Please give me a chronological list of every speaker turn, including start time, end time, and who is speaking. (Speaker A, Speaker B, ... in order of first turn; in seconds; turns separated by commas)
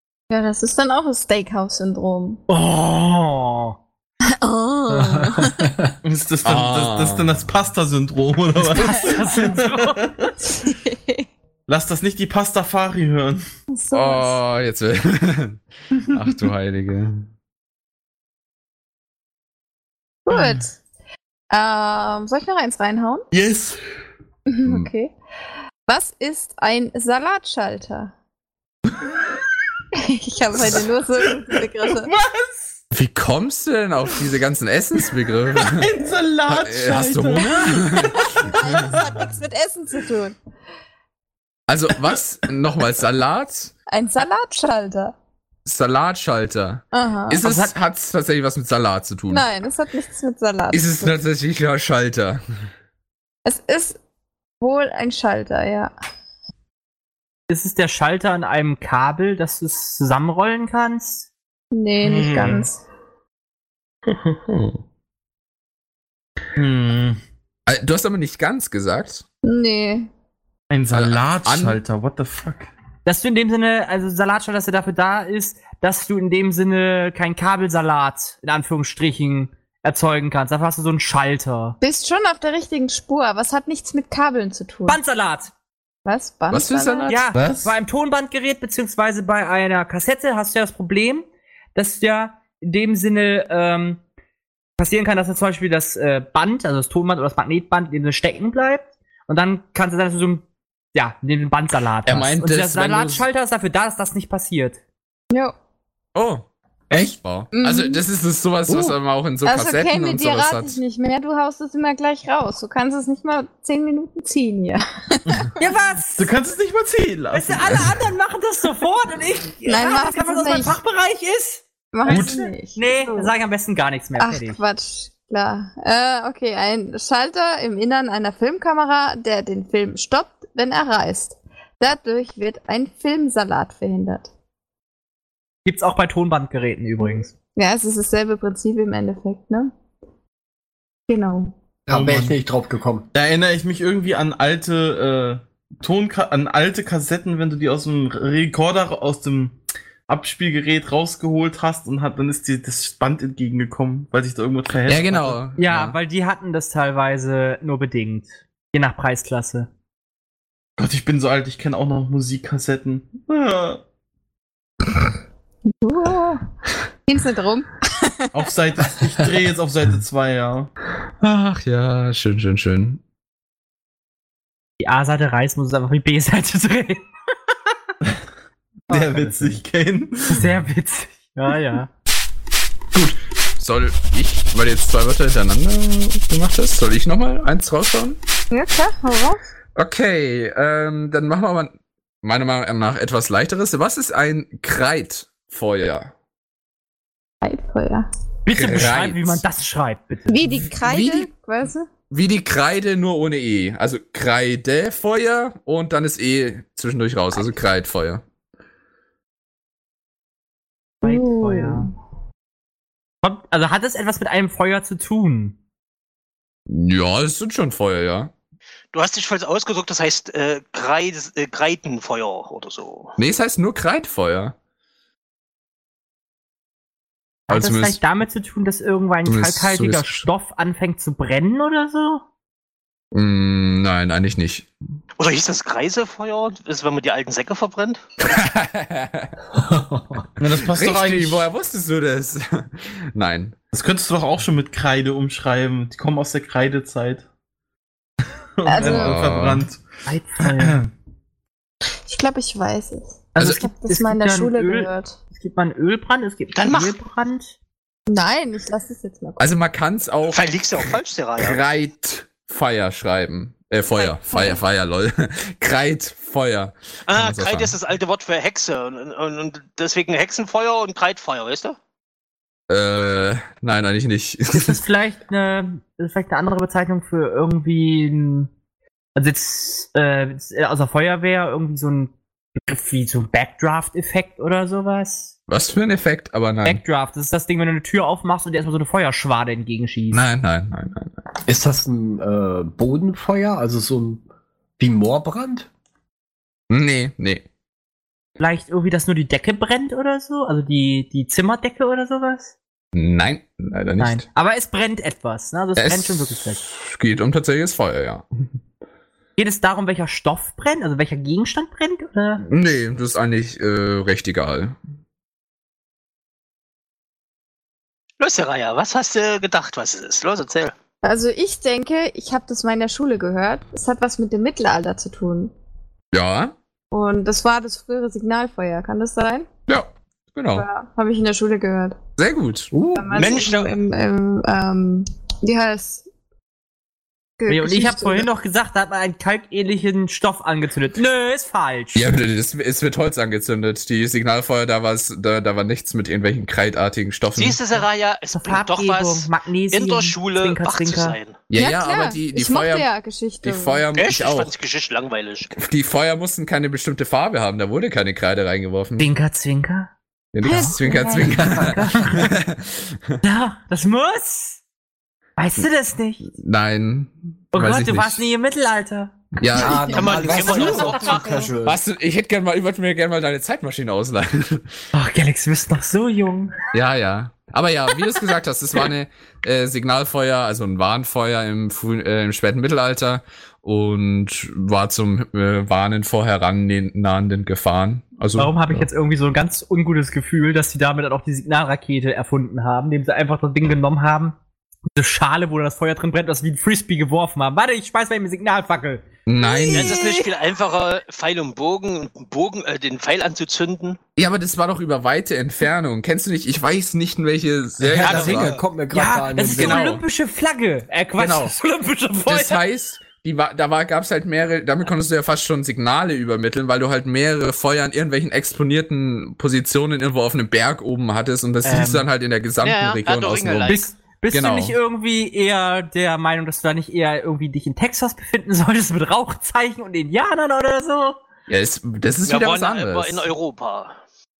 Speaker A: 0.3-2.4, Speaker B: 2.5-3.8, Speaker A: 4.3-5.7, Speaker C: 5.2-5.9, Speaker D: 6.0-10.3, Speaker E: 6.5-7.3, Speaker B: 8.8-10.0, Speaker A: 10.6-11.2, Speaker D: 11.7-13.4, Speaker A: 13.7-14.4, Speaker E: 13.9-17.3, Speaker A: 20.3-20.8, Speaker D: 20.3-20.6, Speaker A: 21.5-23.3, Speaker D: 23.3-23.8, Speaker A: 24.5-25.1, Speaker A: 25.9-28.1, Speaker A: 29.9-32.1, Speaker D: 31.3-32.7, Speaker E: 32.9-35.9, Speaker D: 35.6-39.1, Speaker E: 36.5-38.3, Speaker A: 38.3-40.4, Speaker E: 41.7-43.7, Speaker A: 43.9-45.1, Speaker E: 45.7-49.5, Speaker A: 46.9-47.4, Speaker B: 47.4-47.7, Speaker A: 49.3-51.1, Speaker E: 50.7-52.4, Speaker A: 53.5-54.0, Speaker A: 54.6-55.9, Speaker B: 57.5-61.3, Speaker A: 61.7-62.8, Speaker D: 62.0-62.6, Speaker B: 62.3-62.6, Speaker D: 64.1-64.8, Speaker D: 66.6-67.2, Speaker E: 67.7-69.2, Speaker A: 69.4-70.1, Speaker D: 70.7-72.7, Speaker E: 70.9-71.8, Speaker B: 73.1-81.8, Speaker A: 81.8-85.0, Speaker B: 84.9-85.5, Speaker A: 86.0-87.1, Speaker E: 86.5-87.5, Speaker B: 87.1-94.0, Speaker D: 87.4-87.7, Speaker B: 94.8-104.8, Speaker E: 102.0-103.2, Speaker E: 106.2-106.5, Speaker C: 106.9-107.2, Speaker E: 107.2-110.8, Speaker A: 107.5-108.0, Speaker A: 109.4-115.5, Speaker B: 115.6-116.3, Speaker D: 116.2-117.9, Speaker B: 117.3-124.6, Speaker A: 119.7-120.8, Speaker A: 121.9-123.3, Speaker D: 122.1-122.4, Speaker A: 124.2-134.3, Speaker B: 135.7-137.3, Speaker A: 137.0-139.7, Speaker A: 141.1-141.6, Speaker C: 141.9-143.1, Speaker D: 141.9-142.3, Speaker D: 143.1-155.4, Speaker E: 154.9-156.0, Speaker B: 155.6-159.7, Speaker D: 160.8-163.8, Speaker A: 165.8-166.4, Speaker A: 167.1-168.3, Speaker D: 168.3-170.7, Speaker E: 171.2-173.0, Speaker B: 174.8-177.0, Speaker B: 178.9-179.5, Speaker D: 178.9-180.5, Speaker B: 180.3-181.9, Speaker E: 182.9-188.2, Speaker A: 188.5-189.4, Speaker E: 189.8-196.1, Speaker A: 197.4-198.1, Speaker B: 198.4-200.6, Speaker E: 198.5-199.4, Speaker A: 200.3-201.9, Speaker E: 200.8-201.3, Speaker E: 202.1-208.2, Speaker B: 211.0-211.9, Speaker A: 211.0-211.9, Speaker B: 213.2-215.6, Speaker E: 216.7-218.3, Speaker F: 218.9-223.2, Speaker E: 223.2-224.6, Speaker B: 227.5-232.2, Speaker E: 227.5-228.0, Speaker E: 229.3-230.3, Speaker E: 233.1-234.7, Speaker F: 235.2-238.0, Speaker E: 238.2-239.3, Speaker C: 239.6-240.2, Speaker D: 240.4-241.4, Speaker E: 240.7-243.6, Speaker D: 243.7-247.2, Speaker D: 248.6-249.8, Speaker A: 248.7-249.2, Speaker E: 248.8-249.7, Speaker B: 250.1-250.8, Speaker D: 250.5-250.9, Speaker A: 252.1-255.2, Speaker B: 253.3-257.5, Speaker F: 256.6-256.9, Speaker A: 258.1-259.5, Speaker E: 259.4-260.7, Speaker F: 260.3-261.6, Speaker E: 261.4-267.8, Speaker A: 264.0-264.6, Speaker F: 267.1-271.8, Speaker E: 272.7-274.8, Speaker B: 274.5-278.5, Speaker B: 279.2-285.3, Speaker E: 285.5-286.8, Speaker B: 286.6-290.2, Speaker E: 290.1-291.2, Speaker C: 291.5-294.2, Speaker C: 294.8-295.7, Speaker E: 296.7-297.4, Speaker B: 298.4-302.5, Speaker E: 302.9-304.2, Speaker B: 304.0-306.6, Speaker E: 305.8-308.3, Speaker B: 309.4-312.4, Speaker E: 312.4-314.8, Speaker F: 318.2-320.8, Speaker A: 321.0-325.5, Speaker E: 326.1-326.6, Speaker A: 326.9-329.5, Speaker E: 329.7-330.7, Speaker A: 330.6-332.0, Speaker E: 332.2-332.7, Speaker C: 332.7-333.3, Speaker A: 332.9-336.1, Speaker F: 333.1-333.8, Speaker A: 337.4-338.3, Speaker B: 337.5-342.1, Speaker E: 341.9-347.6, Speaker F: 347.4-351.4, Speaker B: 348.3-351.2, Speaker E: 351.5-352.9, Speaker A: 351.6-353.8, Speaker E: 353.4-354.5, Speaker F: 353.9-355.5, Speaker E: 355.6-359.1, Speaker B: 359.0-359.9, Speaker E: 360.3-363.2, Speaker A: 360.4-361.5, Speaker B: 360.5-362.3, Speaker B: 363.2-364.6, Speaker B: 365.4-366.3, Speaker E: 366.4-368.3, Speaker B: 367.5-369.1, Speaker E: 369.4-374.7, Speaker C: 369.6-371.8, Speaker F: 369.9-371.5, Speaker B: 370.7-371.4, Speaker B: 374.9-376.5, Speaker E: 376.7-388.9, Speaker B: 388.4-394.4, Speaker B: 394.9-400.3, Speaker E: 399.3-400.0, Speaker F: 399.7-404.0, Speaker E: 404.2-408.6, Speaker C: 407.8-409.9, Speaker F: 408.0-408.6, Speaker B: 408.9-412.6, Speaker E: 409.4-410.0, Speaker E: 411.2-411.5, Speaker E: 412.3-424.8, Speaker B: 421.6-422.1, Speaker F: 422.6-423.9, Speaker B: 423.7-431.2, Speaker E: 431.5-433.3, Speaker F: 432.2-433.9